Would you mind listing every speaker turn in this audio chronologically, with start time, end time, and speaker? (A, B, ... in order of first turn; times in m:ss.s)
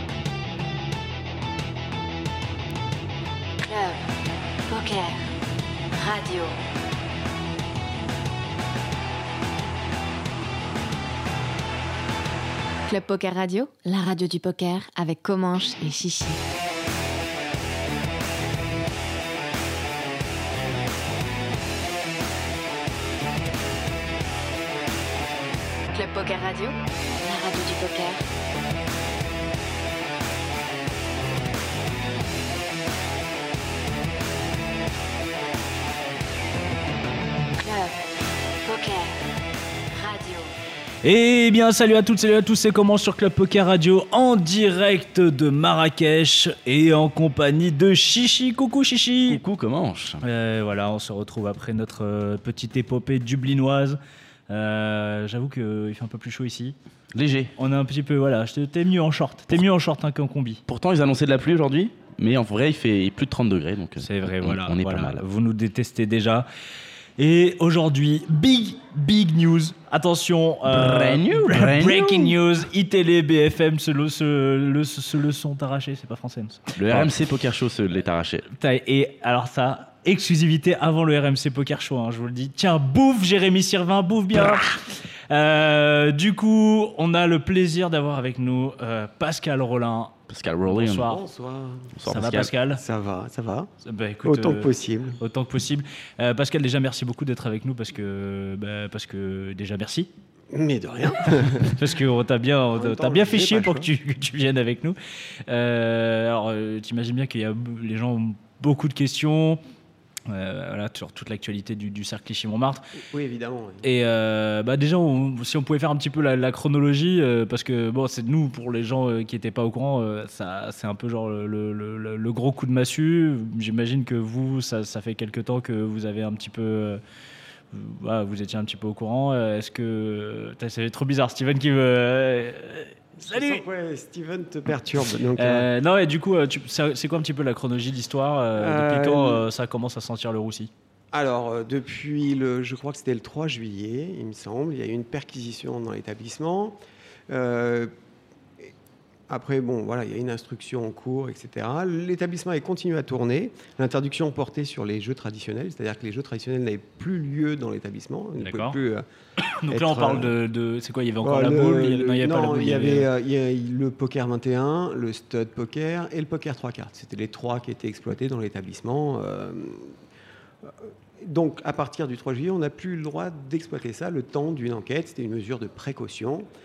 0:03.6-0:04.1 A
0:04.7-0:05.3 A
0:05.9-0:06.5 A
0:12.9-0:16.4 A
0:25.9-0:28.2 A
0:37.6-0:38.0 A
0:38.6-0:39.2 A
0:39.9-0:40.5 A
0:41.0-0:49.4 B
0:49.3-0:50.2 C
0:50.2-0:56.8 B
0:57.1-0:57.5 C
0:57.6-1:00.6 B
1:00.7-1:05.2 C
1:04.0-1:06.5 B
1:07.2-1:17.1 B
1:10.7-1:12.4 C
1:16.8-1:18.5 C
1:18.6-1:30.2 B
1:30.3-1:31.2 C
1:30.7-1:31.2 B
1:30.9-1:32.0 D
1:32.0-1:32.5 C
1:32.0-1:32.8 B
1:32.7-1:33.7 D
1:33.8-1:40.1 B
1:34.2-1:35.2 D
1:40.5-1:41.8 D
1:41.3-1:49.6 B
1:42.7-1:43.9 D
1:50.3-1:53.0 B
1:52.9-1:53.9 D
1:53.8-2:07.0 B
2:07.7-2:13.6 B
2:13.2-2:15.7 D
2:15.4-2:20.7 B
2:18.6-2:19.4 D
2:21.1-2:27.9 D
2:29.3-2:39.0 D
2:38.4-2:38.8 B
2:39.4-2:43.1 B
2:39.7-2:40.4 D
2:41.2-2:49.9 D
2:50.6-2:56.5 D